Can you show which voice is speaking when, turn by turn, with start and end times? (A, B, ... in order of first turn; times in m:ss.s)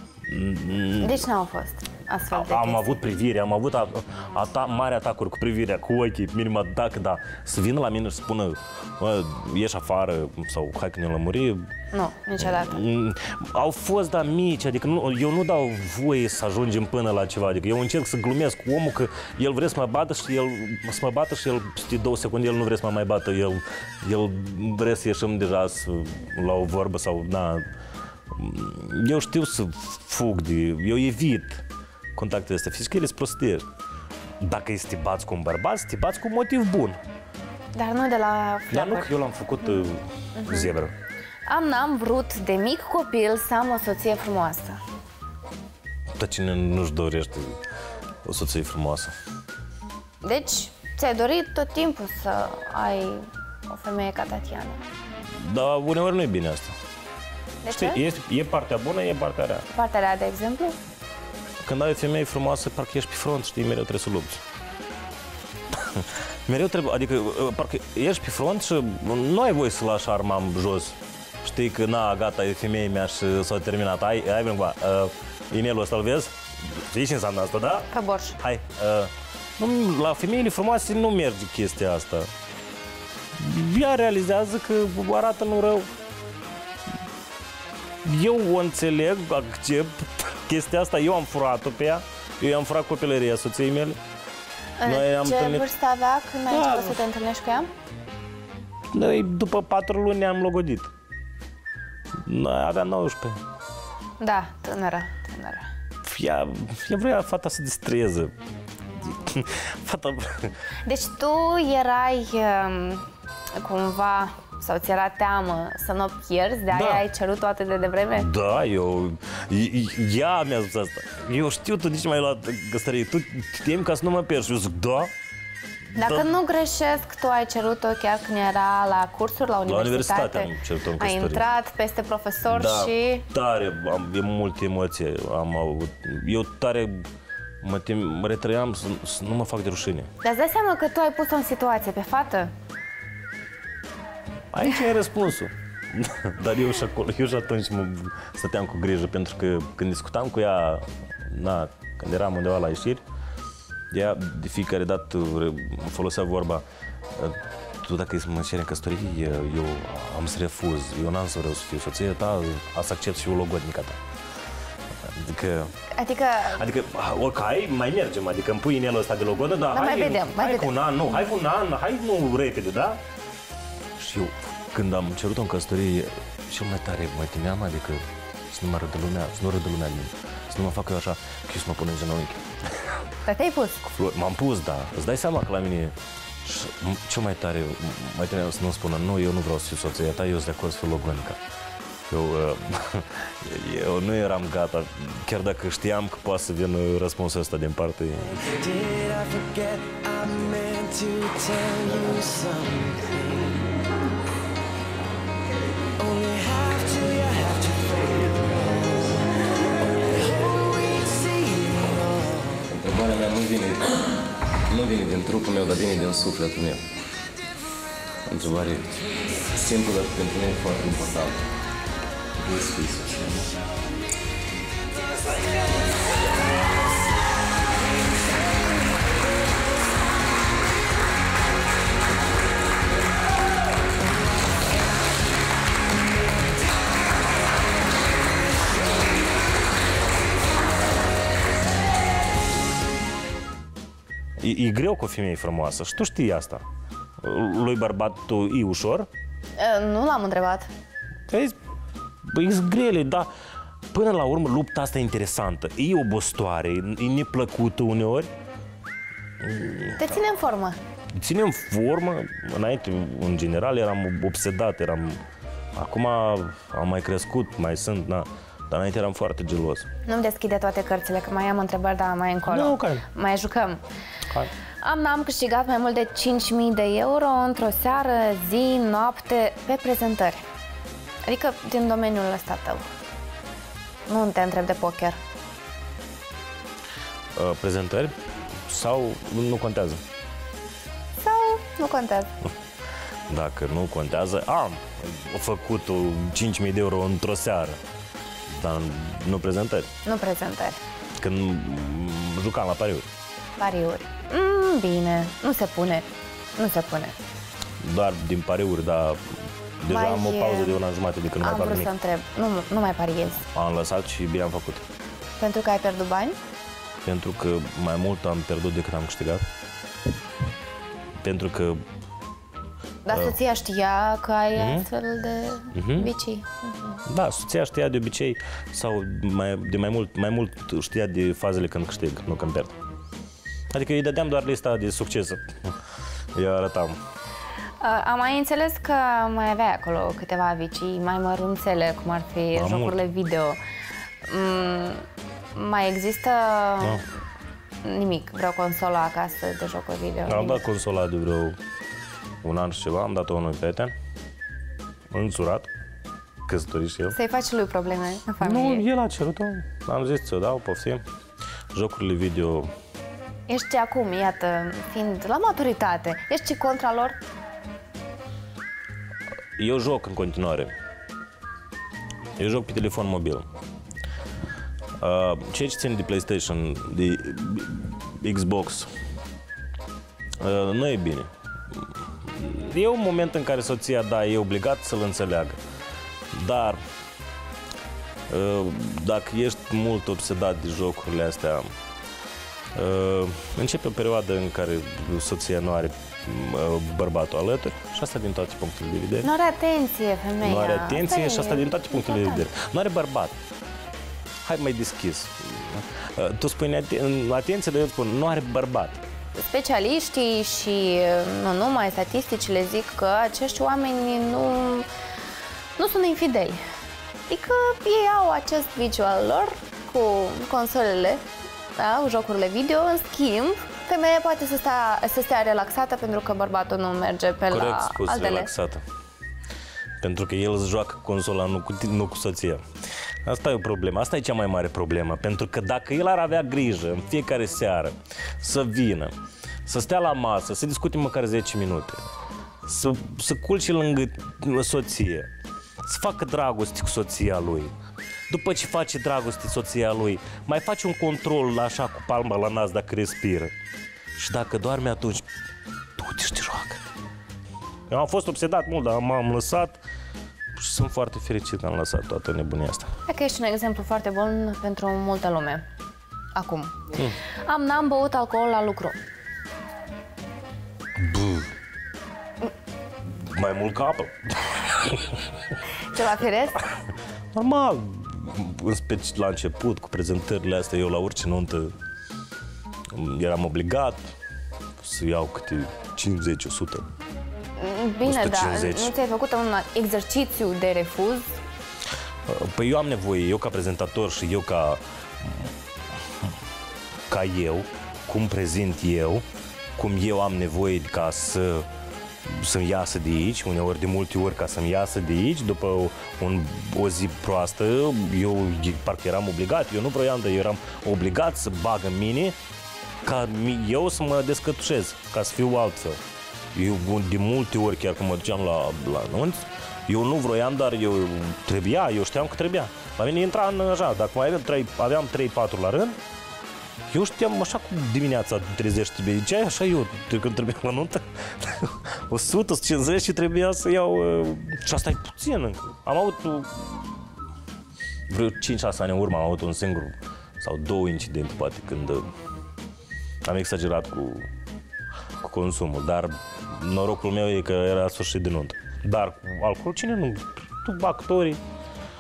0:00.3-0:01.3 A
0:01.0-0:02.9 B
0:02.3-0:11.7 A
0:11.9-0:12.8 B
0:12.4-0:27.6 A
0:28.3-0:31.6 A
0:32.2-0:33.6 A
0:34.4-0:37.0 A
0:37.7-0:39.1 B
0:38.7-0:40.9 A
0:40.4-0:40.7 B
0:41.5-0:44.8 B
0:46.2-0:47.6 A
0:48.2-0:49.1 A
0:50.2-0:54.8 B
0:55.3-0:56.7 A
0:57.6-0:58.0 B
0:57.7-0:59.7 A
0:59.7-1:00.8 B
1:01.6-1:04.4 A
1:05.7-1:17.9 A
1:17.9-1:18.4 B
1:18.4-1:22.3 A
1:23.4-1:25.9 A
1:28.0-1:34.0 A
1:34.8-1:37.7 B
1:34.8-1:35.7 A
1:36.5-1:37.0 A
1:38.9-1:40.9 A
1:42.2-1:43.4 A
1:44.2-1:45.7 B
1:46.0-1:48.3 A
1:49.0-1:50.6 A
1:50.8-1:58.3 B
1:56.7-1:57.0 A
1:58.2-2:05.1 A
2:06.0-2:13.2 B
2:06.0-2:06.3 A
2:09.7-2:11.4 A
2:12.5-2:17.1 A
2:17.6-2:20.1 A
2:20.2-2:22.5 B
2:24.5-2:33.0 A
2:33.9-2:36.6 A
2:37.2-2:44.0 A
2:45.0-2:45.8 A
2:45.9-2:46.6 B
2:46.5-2:53.0 A
2:49.7-2:50.7 B
2:54.0-3:02.9 A
3:03.3-3:03.8 B
3:03.8-3:11.4 A
3:12.1-3:18.4 A
3:18.3-3:23.8 C
3:26.0-3:29.2 C
3:30.0-3:32.8 C
3:32.7-3:34.0 D
3:34.7-3:36.8 D
3:38.3-3:38.7 A
3:38.3-3:38.8 D
3:39.6-3:41.4 D
3:42.4-3:43.3 D
3:42.5-3:43.4 A
3:45.2-3:45.5 C
4:04.4-4:06.6 A
4:07.2-4:09.1 A
4:09.6-4:10.7 B
4:11.3-4:11.6 A
4:12.3-4:13.3 A
4:13.9-4:18.3 A
4:19.4-4:20.2 A
4:20.0-4:20.8 B
4:21.2-4:25.2 A
4:25.8-4:29.9 A
4:30.1-4:33.8 B
4:32.5-4:33.0 A
4:34.8-4:40.4 B
4:41.2-4:42.9 B
4:44.1-4:45.2 B
4:47.4-4:48.2 A
4:48.7-4:50.0 A
4:51.2-4:52.3 B
4:53.3-4:57.8 A
4:58.5-4:59.9 A
5:00.0-5:00.8 B
5:01.2-5:03.1 A
5:03.6-5:07.2 B
5:07.8-5:11.9 A
5:09.9-5:10.8 B
5:11.4-5:13.5 B
5:13.5-5:14.8 A
5:15.4-5:16.4 B
5:17.0-5:19.4 A
5:21.2-5:21.8 A
5:23.1-5:27.0 B
5:23.1-5:23.4 A
5:24.6-5:24.8 A
5:25.7-5:26.1 A
5:27.1-5:32.8 A
5:33.7-5:35.7 A
5:36.4-5:37.0 A
5:37.8-5:43.6 B
5:42.6-5:43.0 A
5:44.3-5:47.0 B
5:47.8-5:50.6 B
5:50.3-5:51.6 A
5:52.4-5:53.9 A
5:55.1-5:55.7 A
5:56.5-5:57.2 A
5:57.1-5:58.9 B
5:58.4-6:01.0 A
6:01.7-6:02.7 A
6:03.5-6:07.2 B
6:09.6-6:10.7 A
6:12.4-6:13.5 A
6:15.0-6:18.9 A
6:20.4-6:21.3 A
6:22.2-6:25.6 A
6:26.3-6:26.8 A
6:28.3-6:31.7 A
6:32.8-6:39.3 A
6:39.2-6:42.4 B
6:40.4-6:43.4 A
6:44.4-6:49.0 A
6:49.4-6:54.9 B
6:55.8-6:56.6 B
6:57.3-7:08.5 B
7:07.5-7:08.8 A
7:10.0-7:12.6 A
7:13.2-7:19.1 A
7:19.7-7:22.0 A
7:22.7-7:25.3 A
7:25.8-7:27.7 A
7:28.3-7:33.5 A
7:34.2-7:35.3 A
7:36.0-7:36.8 A
7:37.9-7:39.8 A
7:40.6-7:42.9 A
7:43.1-7:45.6 B
7:46.4-7:49.0 B
7:51.0-7:51.5 A
7:53.1-7:55.2 A
7:55.9-7:56.7 B
7:57.3-8:01.7 A
8:02.9-8:04.1 A
8:04.8-8:06.8 A
8:07.6-8:11.3 B
8:08.0-8:08.9 A
8:12.3-8:15.5 A
8:17.1-8:19.2 A
8:19.8-8:21.7 A
8:22.3-8:32.4 A
8:33.0-8:36.0 A
8:36.5-8:46.0 A
8:46.9-8:57.0 A
8:58.1-9:02.1 A
9:03.2-9:04.3 A
9:05.2-9:11.4 A